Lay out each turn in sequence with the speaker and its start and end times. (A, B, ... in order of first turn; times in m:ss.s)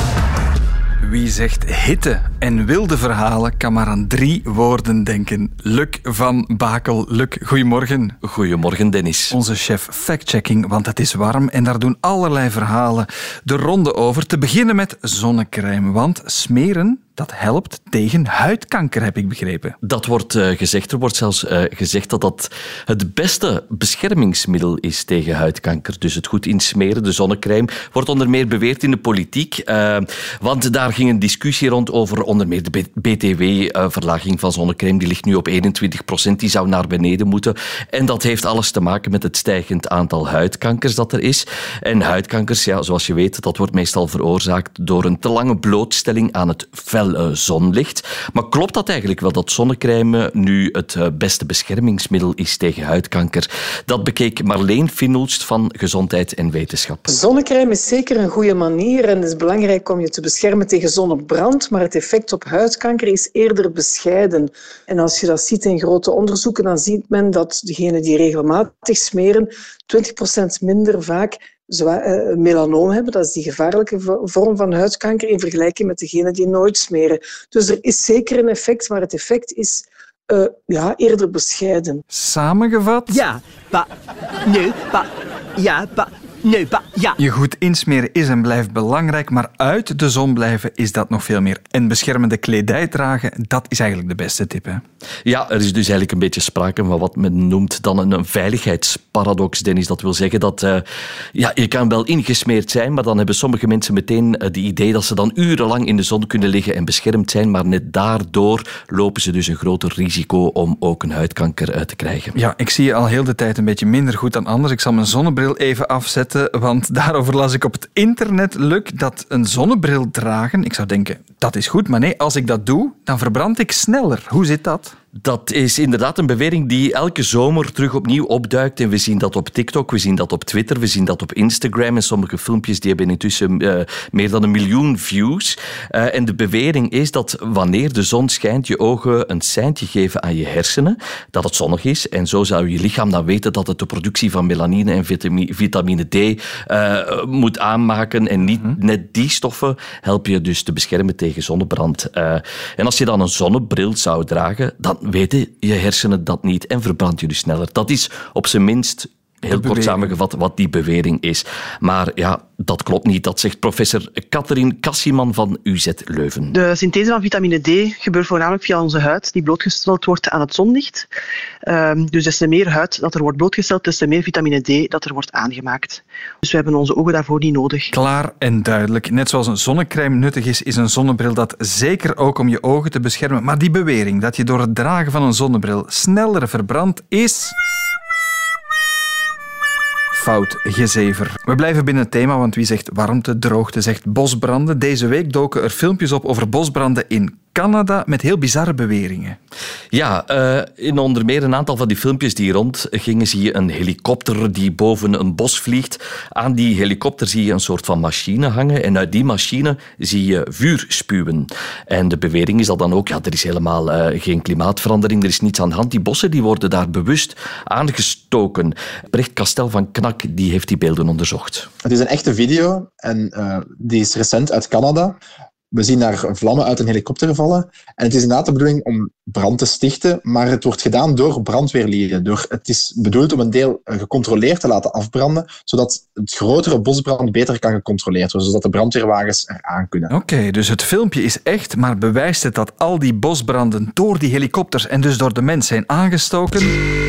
0:01.0-0:08.2 A
0:08.2-0:09.3 B
0:09.3-0:19.8 A
0:19.8-0:57.1 B
0:57.1-1:22.0 C
1:22.1-1:23.2 A
1:23.1-1:23.9 D
1:24.4-1:27.2 D
1:27.2-1:34.8 A
1:35.2-1:40.8 B
1:41.3-1:52.3 B
1:52.3-2:04.9 A
2:05.2-2:46.5 B
2:39.5-2:40.1 A
2:46.5-2:51.1 E
2:51.6-2:57.9 E
2:57.9-3:07.5 A
3:10.1-3:19.4 A
3:19.9-3:41.7 B
3:41.8-3:45.2 F
3:45.7-4:00.1 F
4:00.1-4:06.8 A